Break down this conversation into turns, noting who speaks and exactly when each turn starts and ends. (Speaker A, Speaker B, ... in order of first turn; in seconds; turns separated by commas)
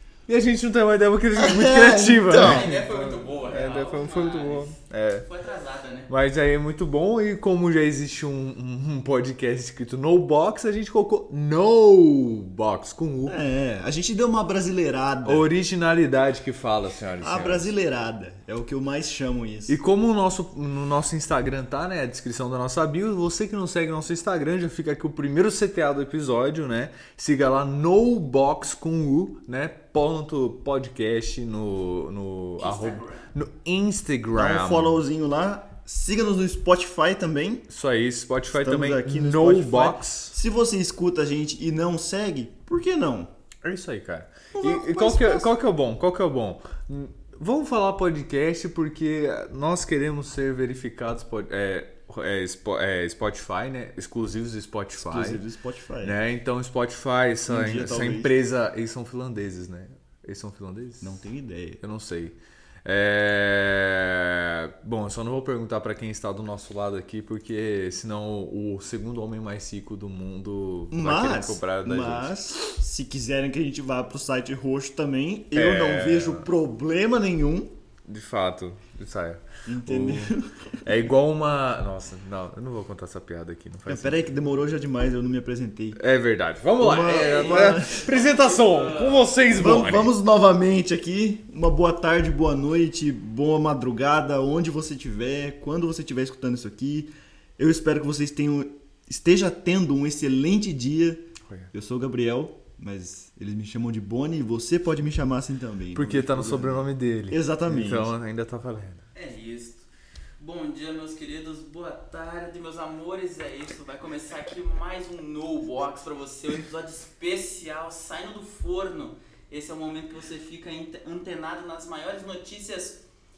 Speaker A: 0.3-5.3, Speaker B: 1.4-2.7, Speaker C: 2.3-6.1, Speaker A: 6.1-13.4, Speaker B: 13.3-15.5, Speaker A: 15.2-17.7, Speaker B: 17.2-19.8, Speaker A: 19.7-35.0, Speaker C: 32.6-33.2, Speaker B: 34.3-37.7, Speaker A: 37.7-40.4, Speaker B: 38.5-43.3, Speaker A: 43.6-55.4, Speaker B: 44.5-45.5, Speaker B: 55.0-56.2, Speaker A: 56.0-61.2, Speaker B: 57.5-58.3, Speaker B: 61.0-61.8, Speaker A: 61.8-72.4, Speaker B: 70.9-77.7, Speaker A: 75.5-76.5, Speaker A: 78.1-84.4, Speaker B: 79.7-80.9, Speaker B: 83.9-86.0, Speaker A: 86.0-90.1, Speaker B: 86.8-88.1, Speaker C: 87.0-89.4, Speaker B: 89.5-108.1, Speaker A: 105.9-109.0, Speaker C: 109.2-109.9, Speaker C: 110.4-123.0